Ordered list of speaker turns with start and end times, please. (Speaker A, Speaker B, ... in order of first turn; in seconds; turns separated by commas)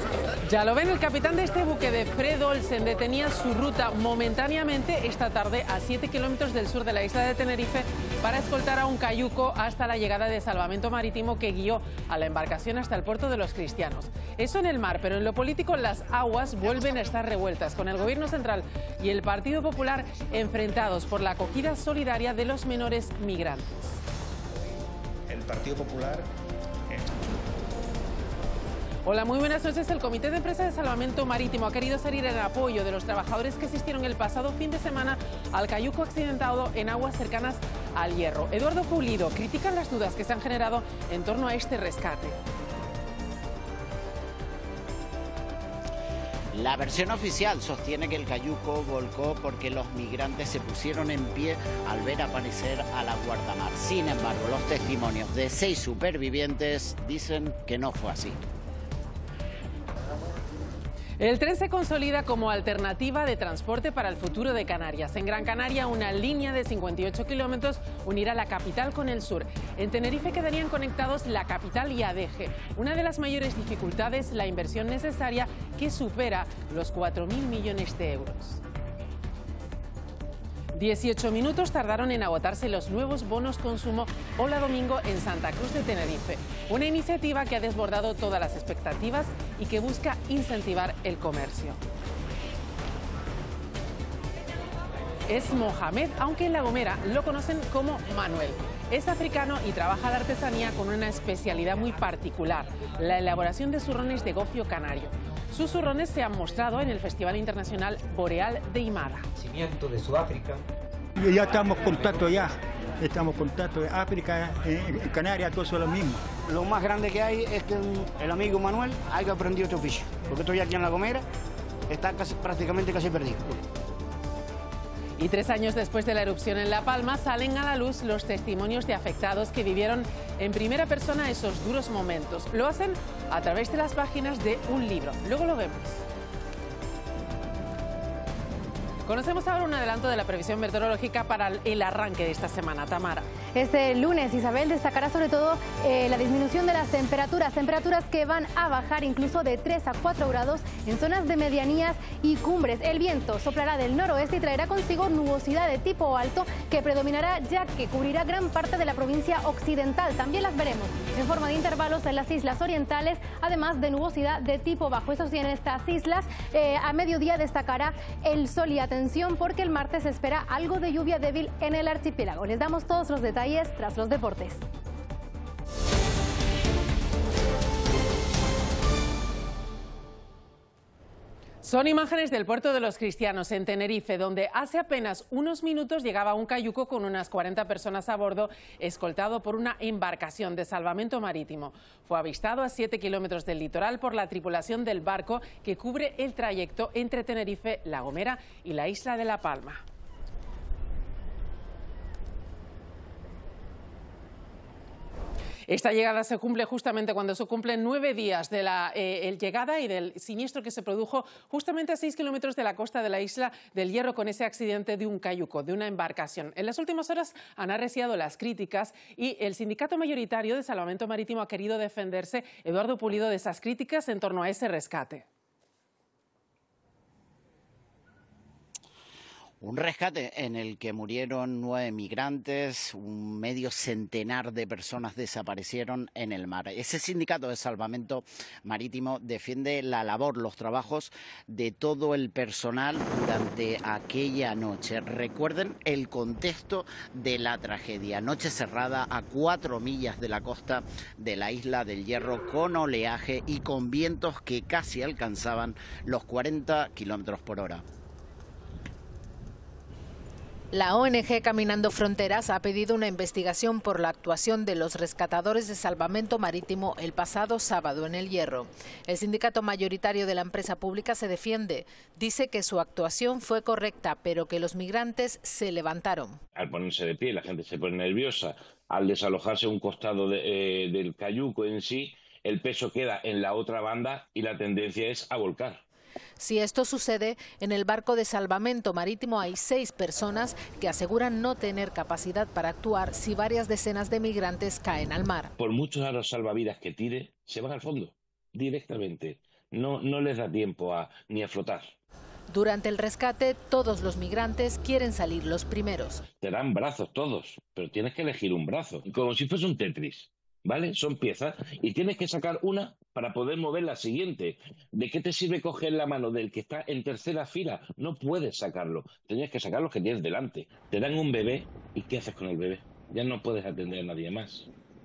Speaker A: 0.5-24.0, Speaker A: 29.0-42.4, Speaker B: 46.5-58.4, Speaker A: 61.2-78.6, Speaker A: 80.7-91.8, Speaker A: 95.3-109.3, Speaker C: 111.2-116.2, Speaker D: 116.5-121.2, Speaker D: 121.9-123.6, Speaker A: 125.2-136.0, Speaker A: 139.1-143.2, Speaker E: 143.6-174.6, Speaker A: 181.6-199.8, Speaker A: 205.7-225.2, Speaker B: 229.6-257.8, Speaker F: 260.7-276.4, Speaker G: 276.6-285.8, Speaker F: 286.4-295.5, Speaker G: 295.6-301.9, Speaker F: 302.5-306.2, Speaker G: 306.4-324.7